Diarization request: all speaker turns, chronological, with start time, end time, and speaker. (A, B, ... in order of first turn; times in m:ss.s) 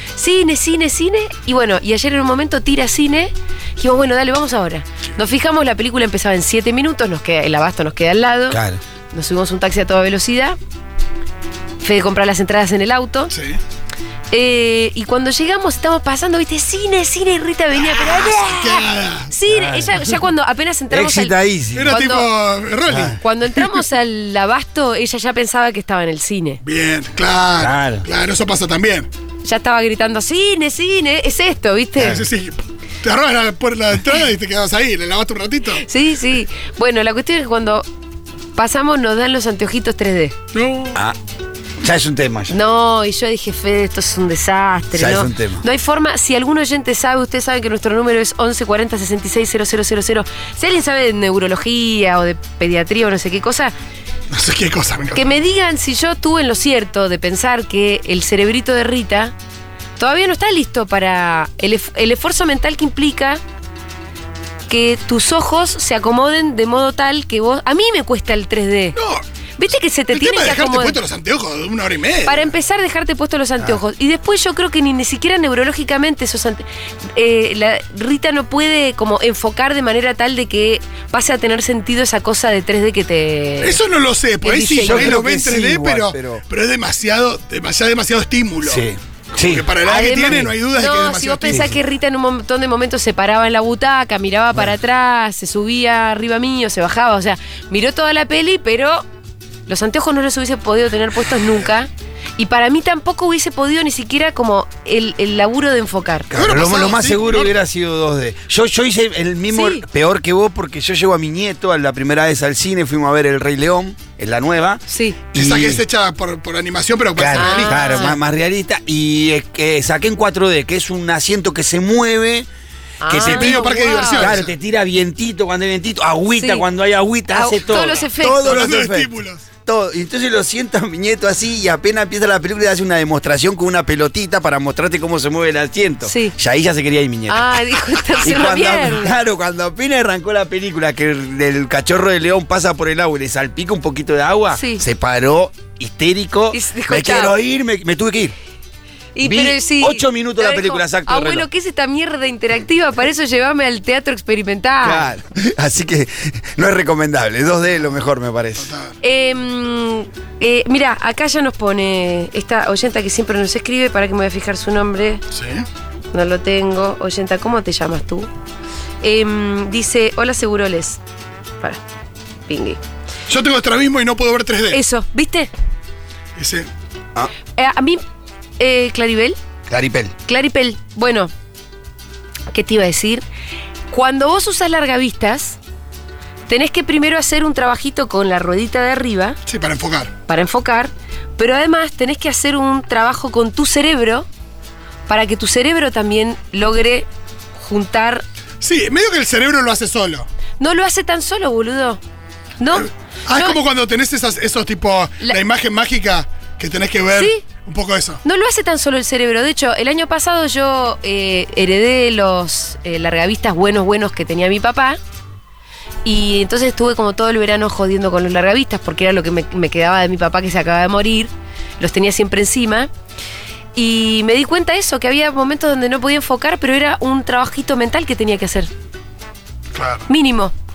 0:00.2-0:08.6 A
0:08.5-0:08.8 B
0:09.1-0:10.6 A
0:11.8-0:13.3 A
0:13.3-0:13.6 C
0:14.3-0:21.4 A
0:17.8-0:19.3 C
0:19.5-0:19.9 B
0:20.9-0:22.0 B
0:21.7-0:23.2 C
0:21.9-0:22.3 A
0:22.9-0:23.2 B
0:23.2-0:26.6 A
0:26.6-0:29.1 C
0:27.6-0:28.1 B
0:29.4-0:32.2 A
0:32.0-0:35.8 C
0:35.8-0:37.9 A
0:38.6-0:40.4 A
0:40.5-0:41.0 C
0:41.8-0:42.6 B
0:42.5-0:53.8 A
0:44.9-0:45.6 B
0:54.3-0:55.3 C
0:55.1-0:59.3 A
1:00.0-1:03.4 A
1:04.7-1:09.0 A
1:09.0-1:09.2 C
1:09.6-1:11.0 A
1:10.1-1:12.5 C
1:12.2-1:23.8 A
1:23.6-1:28.8 C
1:24.4-1:25.2 A
1:24.8-1:26.4 B
1:28.6-1:29.7 B
1:29.4-1:31.8 C
1:29.8-1:39.1 A
1:39.7-1:46.3 A
1:46.3-1:54.8 B
1:46.3-1:47.5 C
1:49.5-1:49.9 A
1:54.9-1:55.2 A
1:55.3-1:55.8 B
1:55.3-1:58.1 C
1:57.2-2:02.5 B
1:57.3-1:58.2 A
2:03.0-2:04.3 A
2:03.1-2:09.1 B
2:03.1-2:04.5 C
2:06.4-2:06.6 A
2:07.3-2:08.6 A
2:08.2-2:09.5 C
2:09.6-2:17.6 B
2:16.1-2:16.3 A
2:17.3-2:19.2 A
2:18.2-2:28.3 B
2:24.5-2:24.8 A
2:26.5-2:27.4 A
2:29.2-2:35.1 A
2:29.2-2:31.5 B
2:34.8-2:38.7 B
2:38.6-2:38.9 C
2:39.0-2:45.2 A
2:45.3-2:45.7 C
2:46.1-2:48.3 A
2:49.0-2:51.0 A
2:52.5-2:52.8 A
2:53.3-2:54.8 C
2:54.7-2:55.5 A
2:56.4-2:56.7 C
2:57.5-2:58.0 A
2:58.6-2:59.4 A
2:59.7-3:00.1 B
3:00.2-3:01.3 A
3:02.5-3:03.2 A
3:03.9-3:05.6 A
3:06.5-3:09.4 A
3:09.5-3:10.1 C
3:10.3-3:14.3 A
3:15.1-3:18.2 A
3:18.6-3:20.3 C
3:20.6-3:22.0 A
3:22.6-3:23.6 A
3:22.7-3:28.2 C
3:27.1-3:27.4 A
3:28.2-3:35.0 A
3:36.0-3:42.9 A
3:43.8-3:48.7 A
3:49.7-3:50.1 C
3:50.1-3:50.5 A